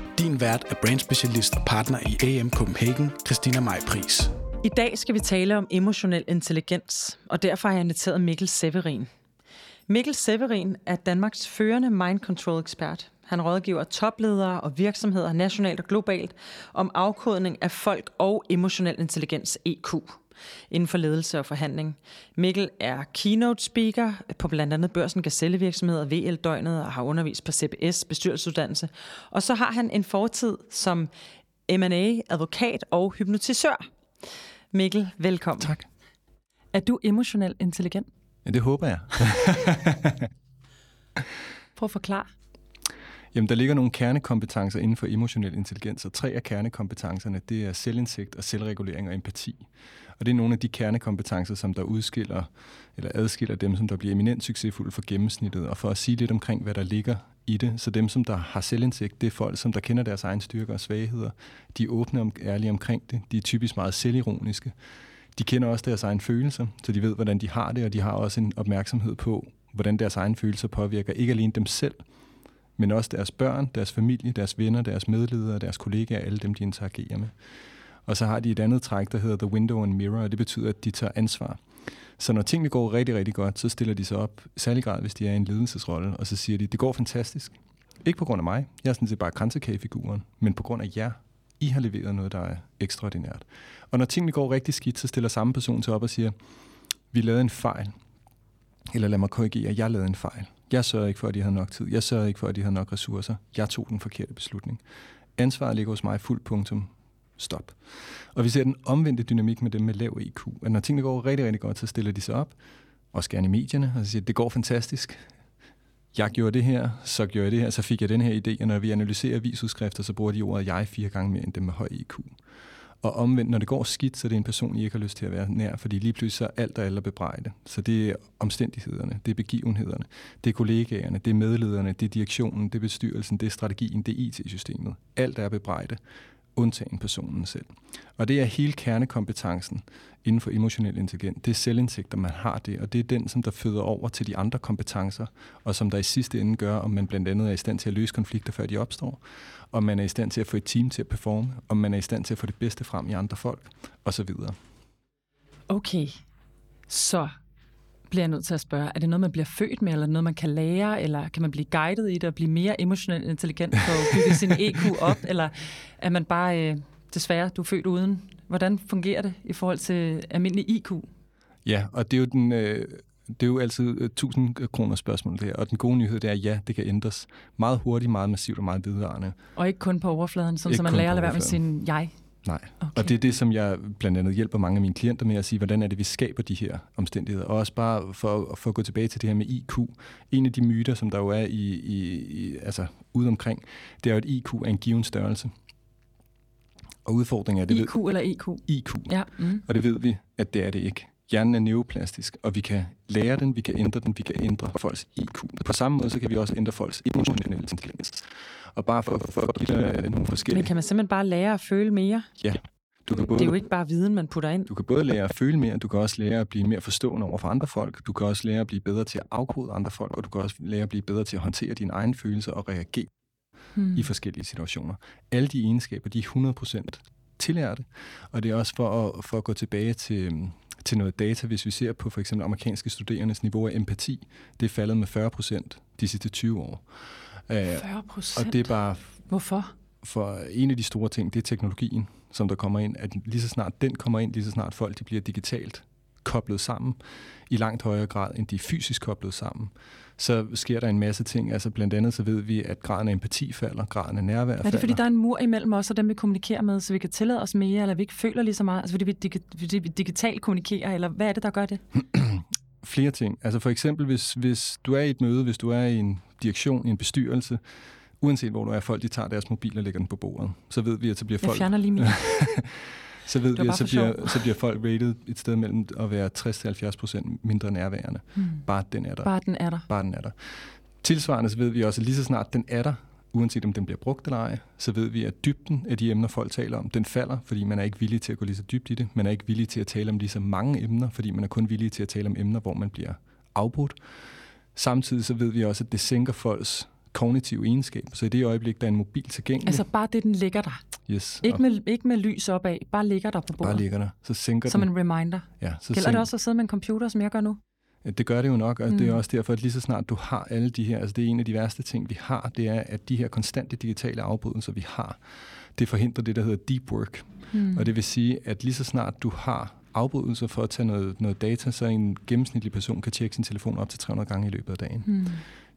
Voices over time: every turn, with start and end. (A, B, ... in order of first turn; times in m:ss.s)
0:00.1-0:04.3 A
0:04.6-0:09.1 B
0:09.9-0:20.2 B
0:20.7-0:31.1 B
0:31.7-0:33.8 B
0:34.7-0:35.8 B
0:36.7-0:38.1 B
0:38.4-0:40.3 C
0:41.8-0:42.3 B
0:43.3-0:49.6 C
0:50.2-1:04.7 C
1:05.4-1:12.0 C
1:12.8-1:17.3 C
1:18.0-1:21.6 C
1:22.2-1:36.3 C
1:37.1-1:37.9 C
1:38.9-1:44.8 C
1:45.4-1:52.6 C
1:53.1-1:55.2 C
1:56.1-2:02.3 C
2:03.0-2:16.0 C
2:16.5-2:34.6 C
2:35.7-2:36.2 B
2:36.9-2:37.3 B
2:38.1-2:51.1 B
2:51.6-2:59.4 C
2:59.6-3:02.1 B
3:00.7-3:01.6 C
3:02.4-3:15.5 C
3:02.8-3:03.1 B
3:17.0-3:18.0 C
3:17.7-3:19.6 B
3:18.6-3:30.7 C
3:30.5-3:32.3 B
3:32.4-3:33.6 C
3:33.2-3:34.7 B
3:34.7-3:43.1 C
3:43.8-3:44.0 B
3:43.9-3:56.8 C
3:57.5-3:59.1 C
3:57.7-3:58.7 B
3:59.3-3:59.7 B
4:00.0-4:15.0 C
4:14.6-4:21.8 B
4:21.9-4:27.6 C
4:28.2-4:39.3 C
4:31.4-4:32.2 B
4:33.5-4:34.4 B
4:38.4-4:38.6 B
4:39.2-4:39.9 B
4:39.9-4:54.0 C
4:54.7-4:59.8 C
4:59.6-5:00.8 B
5:01.1-5:01.6 C
5:01.4-5:03.8 B
5:03.6-5:04.9 C
5:04.6-5:07.6 B
5:05.6-5:06.3 C
5:08.0-5:25.2 C
5:08.9-5:09.2 B
5:17.5-5:17.9 B
5:25.0-5:25.4 B